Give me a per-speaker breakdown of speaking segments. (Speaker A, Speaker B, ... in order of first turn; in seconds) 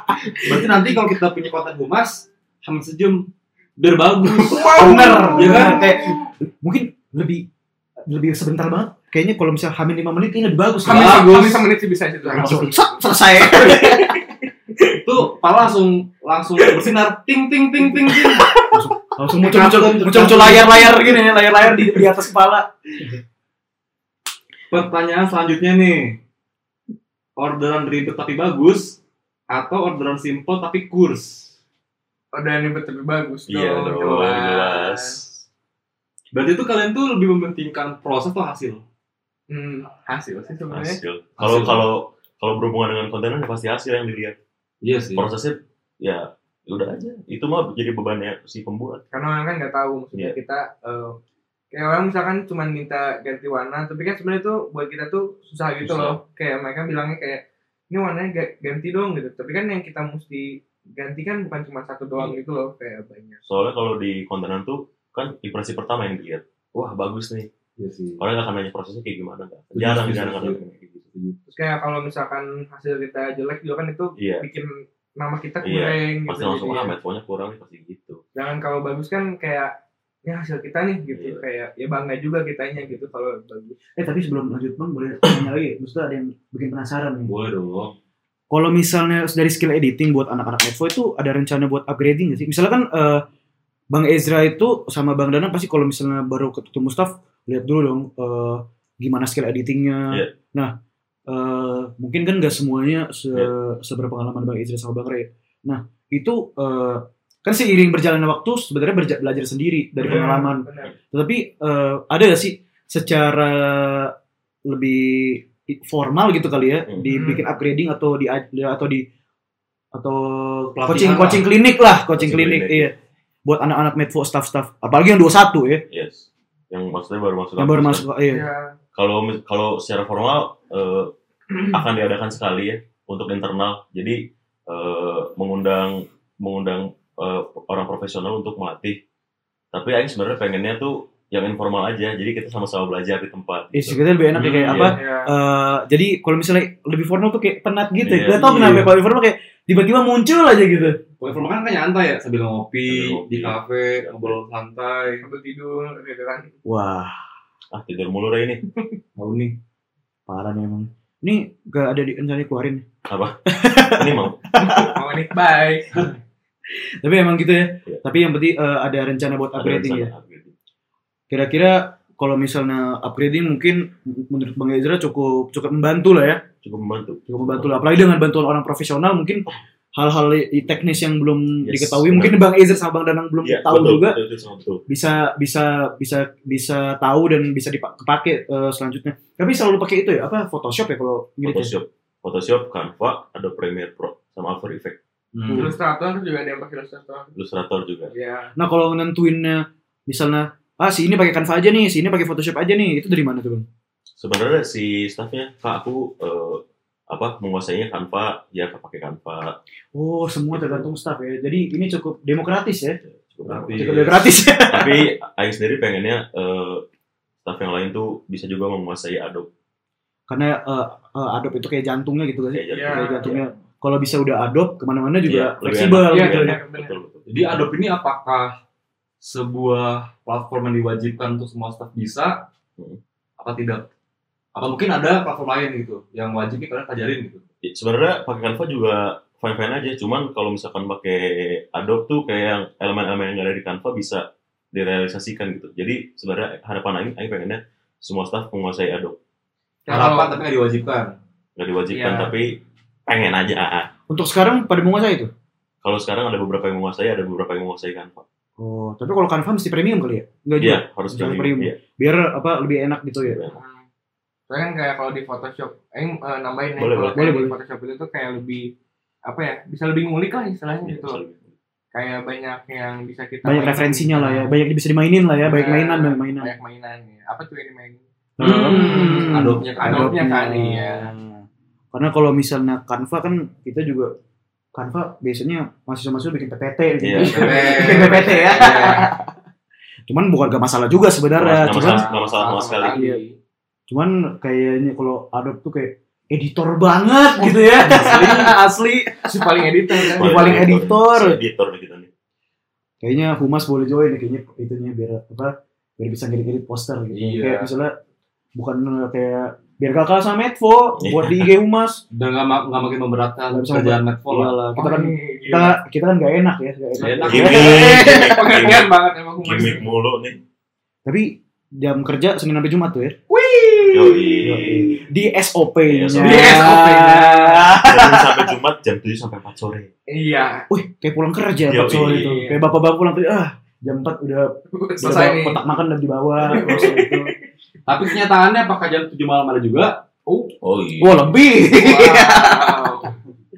Speaker A: 0.4-6.0, 10.9-11.7, 15.0-18.6, 19.4-21.9, 24.7-26.2, 27.4-29.0, 29.5-31.5, 36.3-38.8, 41.4-41.8, 44.8-45.3, 67.8-68.2, 69.7-70.6, 87.3-88.0, 120.8-121.5, 144.3-145.0, 148.4-148.9, 151.2-155.2, 159.2-159.6, 195.3-195.8, 213.5-214.3, 227.3-228.6, 229.2-232.5, 233.4-233.9, 234.6-237.4, 249.9-251.2, 278.4-280.2, 287.2-289.1, 297.8-298.6, 307.1-307.7, 312.1-314.6, 316.9-317.9, 337.9-340.0
Speaker B: 4.5-6.2, 10.8-14.2, 16.6-16.9, 18.0-18.8, 32.3-35.2, 39.5-41.0, 49.1-51.2, 51.7-63.4, 71.5-76.9, 78.3-79.7, 80.2-83.8, 110.0-110.9, 117.1-117.4, 128.3-128.8, 144.8-145.3, 155.2-156.5, 164.6-166.1, 195.5-197.3, 198.1-198.5, 222.7-223.4, 226.1-226.9, 249.8-250.4, 251.9-252.3, 263.5-263.9, 264.5-268.7, 269.3-271.2, 271.9-274.5, 275.4-281.1, 287.3-288.9, 291.7-293.4, 299.3-300.6, 314.8-315.8, 317.5-319.9, 323.3-324.4, 326.2-327.7, 330.1-330.7, 332.1-332.6, 334.7-335.6, 336.5-337.3, 340.3-340.6, 341.7-343.2
Speaker C: 4.7-7.5, 8.1-11.4, 12.3-14.2, 18.7-22.7, 84.0-87.3, 88.5-93.2, 93.9-100.7, 101.3-114.1, 114.7-119.1, 119.9-122.9, 123.5-125.8, 127.6-128.4, 143.7-151.0, 156.7-157.2, 160.3-162.8, 163.5-165.0, 167.0-170.1, 171.3-176.4, 177.3-184.2, 184.9-191.7, 195.5-195.7, 198.6-203.7, 209.9-213.0, 213.8-215.1, 220.3-226.6, 254.1-255.3, 258.6-263.4, 267.1-267.6, 273.4-276.5, 278.4-284.1, 284.7-289.3, 290.1-292.1, 292.9-293.2, 293.9-301.4, 303.0-308.0, 308.6-312.0, 313.5-318.3, 321.1-323.2, 324.4-328.5, 330.7-337.3, 341.0-342.9
Speaker D: 33.5-35.4, 40.7-44.4, 45.1-49.0, 55.8-56.2, 63.5-67.5, 68.2-71.1, 74.2-74.5, 75.6-78.2, 81.1-81.4, 122.2-122.9, 125.9-128.1, 128.9-131.1, 131.7-139.0, 139.7-144.0, 144.7-145.0, 148.0-148.7, 152.9-154.4, 157.7-158.6, 163.1-164.6, 169.6-170.5, 176.6-177.7, 181.6-182.4, 183.4-184.8, 191.4-195.0, 197.4-198.1, 204.2-209.6, 210.5-210.8, 213.1-214.2, 214.7-216.8, 217.4-219.5, 222.5-223.4, 225.2-227.2, 237.7-249.2, 251.6-253.9, 255.8-258.2, 260.6-261.8, 263.2-263.6, 266.8-267.2, 270.8-271.4, 287.0-287.7, 291.4-293.0, 300.1-302.1, 311.0-311.5, 317.0-320.4, 323.9-325.0, 325.9-326.6, 327.8-329.9, 331.7-332.4, 336.4-337.0, 340.6-341.3